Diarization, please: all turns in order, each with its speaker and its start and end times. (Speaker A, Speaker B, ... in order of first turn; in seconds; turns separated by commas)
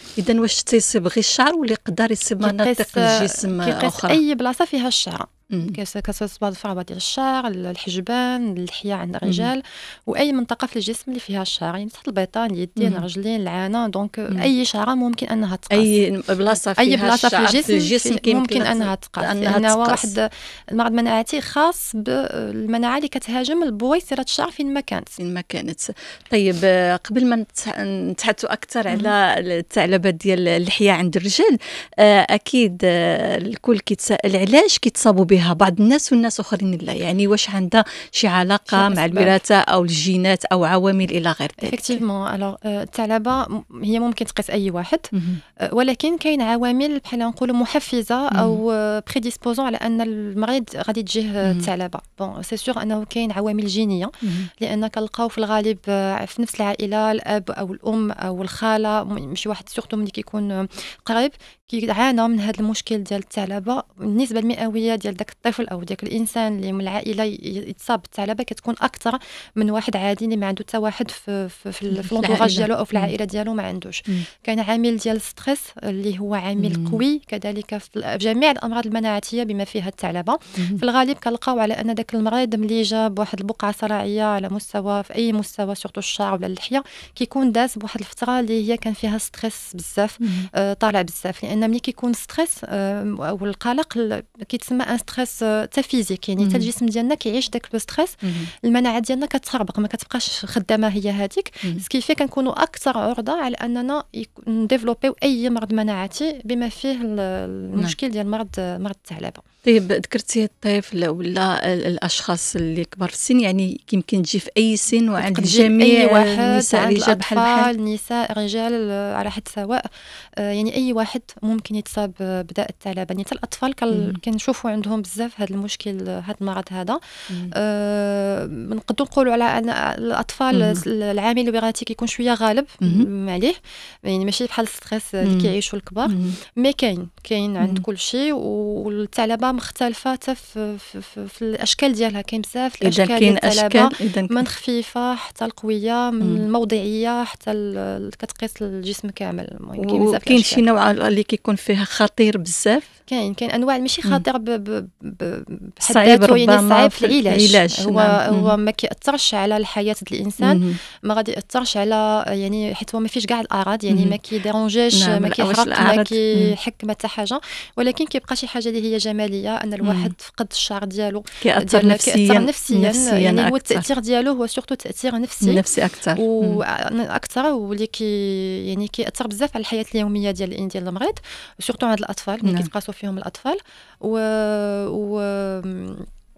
Speaker A: 0.2-4.2, Speaker B: 2.4-16.0, Speaker A: 5.5-5.8, Speaker A: 9.2-9.5, Speaker A: 12.8-13.1, Speaker A: 15.7-20.1, Speaker B: 16.8-25.2, Speaker A: 25.2-42.0, Speaker B: 38.7-39.4, Speaker B: 41.6-45.1, Speaker A: 45.1-45.4, Speaker B: 45.6-109.4, Speaker A: 48.3-48.6, Speaker A: 51.4-51.7, Speaker A: 54.2-54.5, Speaker A: 71.9-73.1, Speaker A: 76.6-77.0, Speaker A: 80.6-80.8, Speaker A: 90.2-90.5, Speaker A: 96.4-96.7, Speaker A: 98.2-98.5, Speaker A: 109.6-117.7, Speaker B: 115.2-119.9, Speaker B: 120.4-127.0, Speaker A: 123.9-124.2, Speaker B: 127.5-150.6, Speaker A: 130.5-130.8, Speaker A: 132.8-133.1, Speaker A: 135.2-135.5, Speaker A: 136.1-136.4, Speaker A: 142.8-144.4, Speaker A: 149.8-152.9, Speaker B: 153.1-175.6, Speaker A: 155.8-158.6, Speaker A: 160.4-160.8, Speaker A: 163.9-164.2, Speaker A: 164.9-166.5, Speaker A: 169.8-170.1, Speaker A: 171.4-173.8, Speaker A: 175.4-176.6, Speaker B: 176.2-186.1, Speaker A: 182.4-182.7